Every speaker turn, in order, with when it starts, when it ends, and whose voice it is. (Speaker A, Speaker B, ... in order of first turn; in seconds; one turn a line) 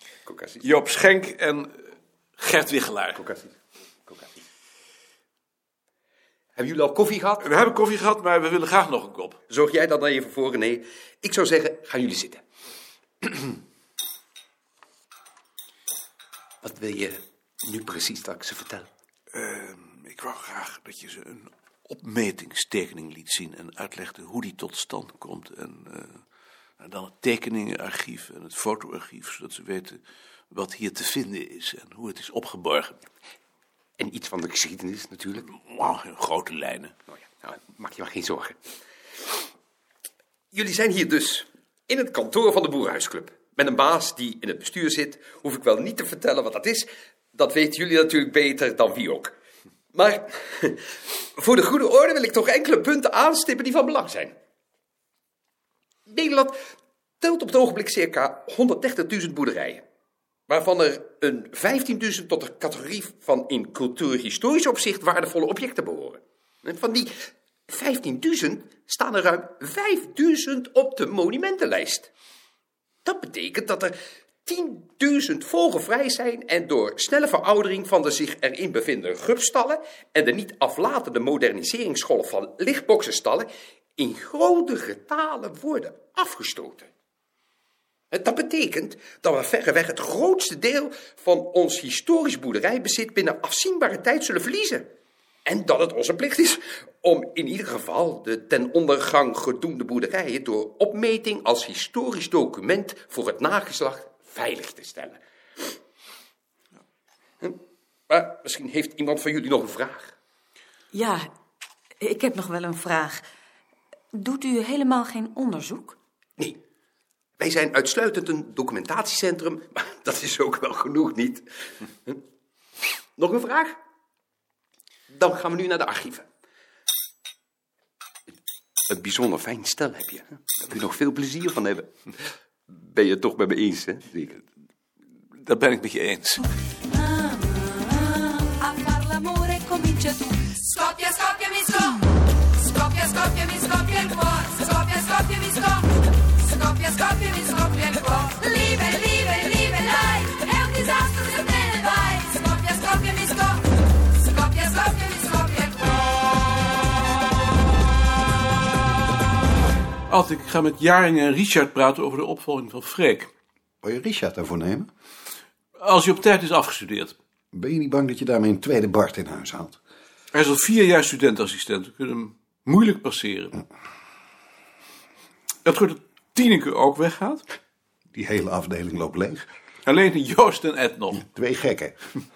Speaker A: 0.3-0.7
Speaker B: 0.6-1.7
Speaker B: 2.4-3.2
Speaker A: 3.1-3.5
Speaker A: 4.1-4.4
Speaker A: 6.6-7.5
Speaker B: 7.4-9.4
Speaker A: 9.5-12.4
Speaker A: 13.2-13.6
Speaker A: 16.6-18.9
Speaker B: 19.3-26.2
Speaker B: 26.8-30.0
Speaker B: 30.5-33.0
Speaker A: 34.0-35.5
Speaker B: 35.7-36.9
Speaker A: 37.1-38.6
Speaker A: 40.5-49.3
Speaker A: 49.9-50.8
Speaker A: 51.4-54.3
Speaker A: 56.1-56.6
Speaker A: 57.2-59.8
Speaker A: 60.5-67.1
Speaker A: 67.7-72.1
Speaker A: 73.0-86.9
Speaker A: 88.1-94.9
Speaker A: 95.5-105.2
Speaker A: 108.1-110.1
Speaker C: 110.9-111.3
Speaker C: 112.0-113.2
Speaker C: 114.1-116.0
Speaker A: 117.4-121.5
Speaker A: 123.2-123.8
Speaker A: 125.1-126.3
Speaker A: 128.9-131.9
Speaker A: 132.7-134.4
Speaker B: 135.4-136.5
Speaker D: 138.8-140.2
Speaker D: 141.0-141.8
Speaker D: 143.0-145.6
Speaker D: 146.8-153.3
Speaker D: 154.6-155.5
Speaker B: 160.1-163.3
Speaker E: 163.8-164.9
Speaker B: 165.8-167.2
Speaker E: 167.5-169.8
Speaker B: 170.3-173.6
Speaker B: 175.7-177.4
Speaker E: 178.1-179.5
Speaker B: 179.9-181.3
Speaker E: 181.2-182.0